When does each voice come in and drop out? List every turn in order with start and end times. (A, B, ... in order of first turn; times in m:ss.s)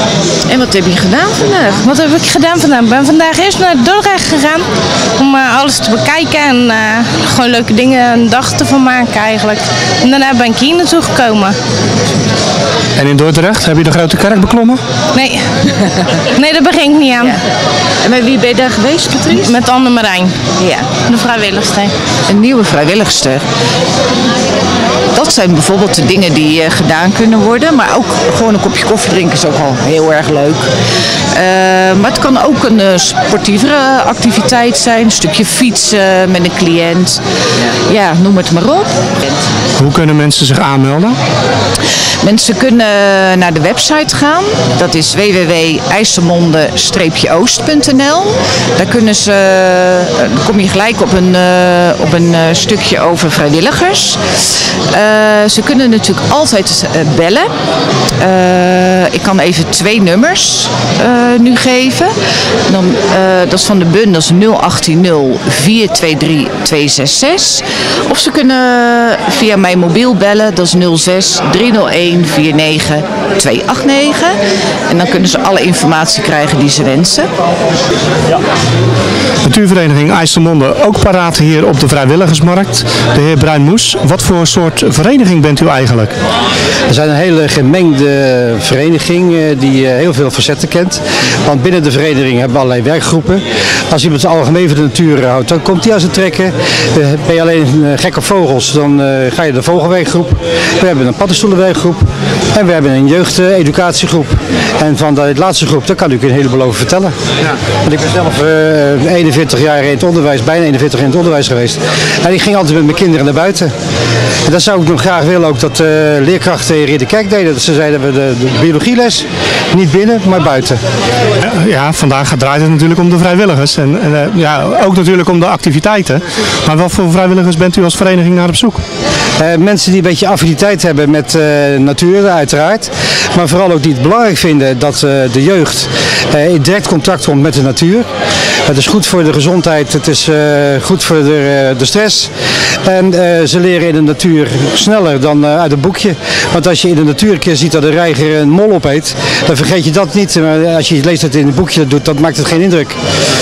0:00.5-0:01.8 A
0:01.8-0:04.6 B
0:05.2-0:11.6 B
0:13.0-0:14.8 C
0:15.1-0:15.4 B
0:16.4-0:17.4 B
0:18.0-0:19.5 A
0:19.4-0:20.3 B
0:20.6-0:20.9 A
0:21.0-0:21.9 B
0:22.3-0:23.4 A
0:25.1-0:30.6 A
0:31.3-0:37.2 A
0:37.9-0:39.0 A
0:39.8-0:41.2 C
0:42.2-0:54.2 A
0:54.9-0:57.5 A
0:58.2-1:02.1 A
1:02.7-1:14.4 A
1:14.9-1:17.3 A
1:19.4-1:26.1 C
1:26.9-1:47.1 D
1:47.8-1:53.7 D
1:54.5-2:00.8 D
2:01.4-2:08.8 C
2:09.4-2:18.1 D
2:18.6-2:22.3 D
2:22.8-2:33.0 D